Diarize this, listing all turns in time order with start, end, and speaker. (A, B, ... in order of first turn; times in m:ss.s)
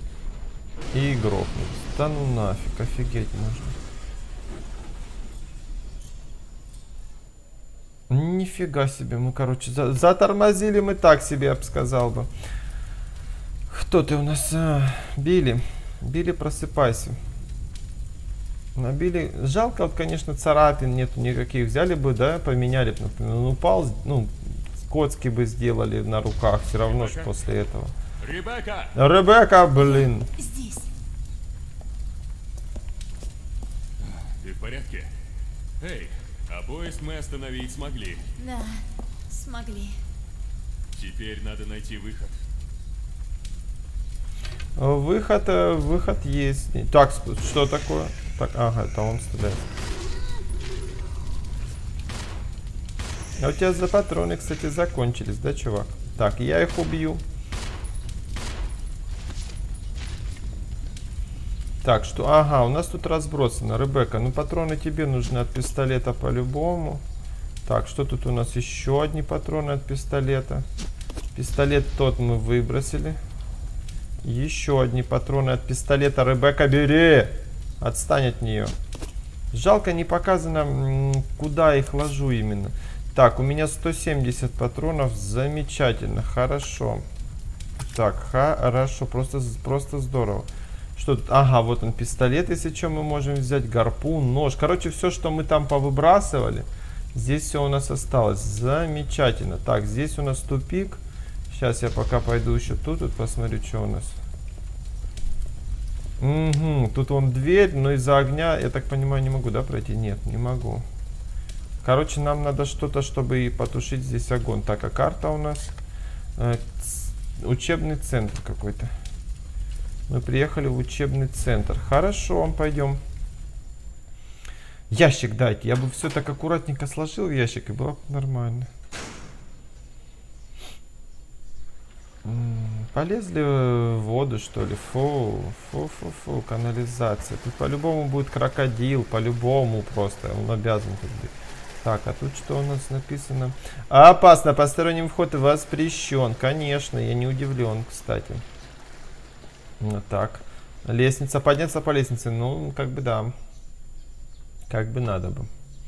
0:00.9-0:03.8 A
0:08.1-0:12.3 A
0:13.7-0:17.2 A
0:18.8-0:27.9 A
0:26.8-0:27.3 B
0:28.2-0:28.9 B
0:28.9-0:30.3 A
0:30.4-0:30.9 C
0:34.4-0:35.1 B
0:35.8-0:38.2 B
0:38.4-0:40.0 C
0:40.9-0:42.3 B
0:44.8-0:49.6 A
0:53.4-0:57.2 A
1:01.8-1:07.0 A
1:07.6-1:10.6 A
1:11.3-1:13.2 A
1:14.2-1:18.7 A
1:19.5-1:27.0 A
1:27.8-1:44.2 A
1:46.2-1:50.8 A
1:51.8-1:55.7 A
1:56.4-1:58.9 A
2:00.1-2:03.0 A
2:04.9-2:08.7 A
2:12.2-2:28.4 A
2:29.8-2:33.3 A
2:34.7-2:35.5 A